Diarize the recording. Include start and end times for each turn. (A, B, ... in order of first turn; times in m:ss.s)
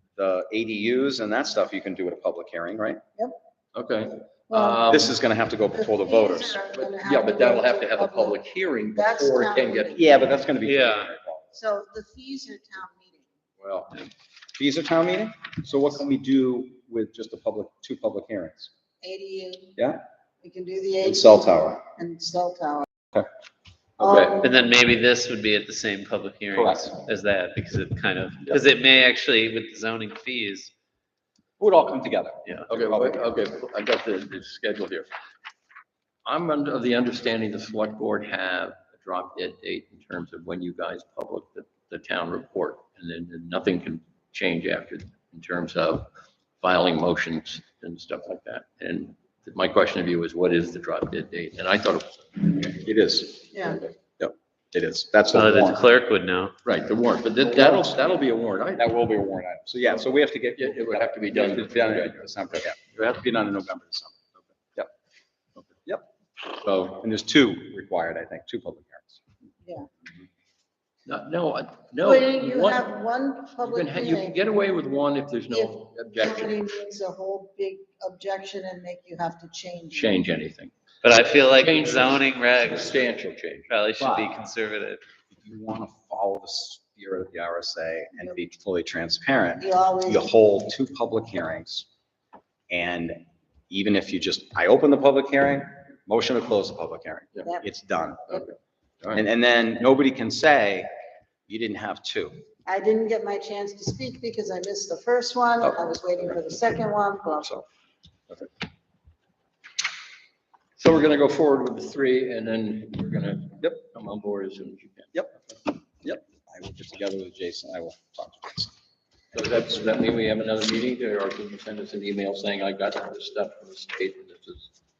0:00.2-0:03.0 A
0:03.7-0:05.1 B
0:04.5-0:05.0 C
0:04.9-0:06.6 A
0:05.7-0:10.3 C
0:06.7-0:10.2 B
0:09.9-0:11.5 A
0:10.6-0:11.1 D
0:11.5-0:13.3 C
0:13.6-0:14.0 B
0:14.6-0:18.7 A
0:19.0-0:19.8 C
0:20.4-0:22.9 C
0:21.0-0:21.8 A
0:24.0-0:24.4 B
0:24.0-0:24.5 C
0:24.4-0:30.7 D
0:26.5-0:27.0 A
0:31.6-0:33.2 A
0:32.7-0:35.1 B
0:36.2-0:46.1 B
0:46.6-0:52.6 B
0:52.5-0:53.4 A
0:53.5-0:53.8 C
0:54.2-0:55.8 A
0:55.3-0:56.5 D
0:56.6-0:58.9 B
0:57.4-0:58.1 A
0:58.8-1:04.4 A
1:00.6-1:02.2 B
1:06.6-1:06.9 B
1:06.7-1:09.2 A
1:11.0-1:12.9 B
1:12.0-1:14.4 C
1:13.5-1:16.6 B
1:15.5-1:20.2 C
1:19.9-1:20.7 B
1:21.0-1:23.0 D
1:21.3-1:23.7 B
1:23.7-1:25.0 D
1:24.0-1:24.3 A
1:25.3-1:31.9 A
1:29.6-1:30.2 C
1:32.7-1:38.4 A
1:38.3-1:39.2 B
1:39.1-1:40.9 A
1:41.5-1:42.4 A
1:42.6-1:47.6 C
1:50.8-1:55.1 B
1:55.1-1:58.7 A
1:59.3-2:04.7 B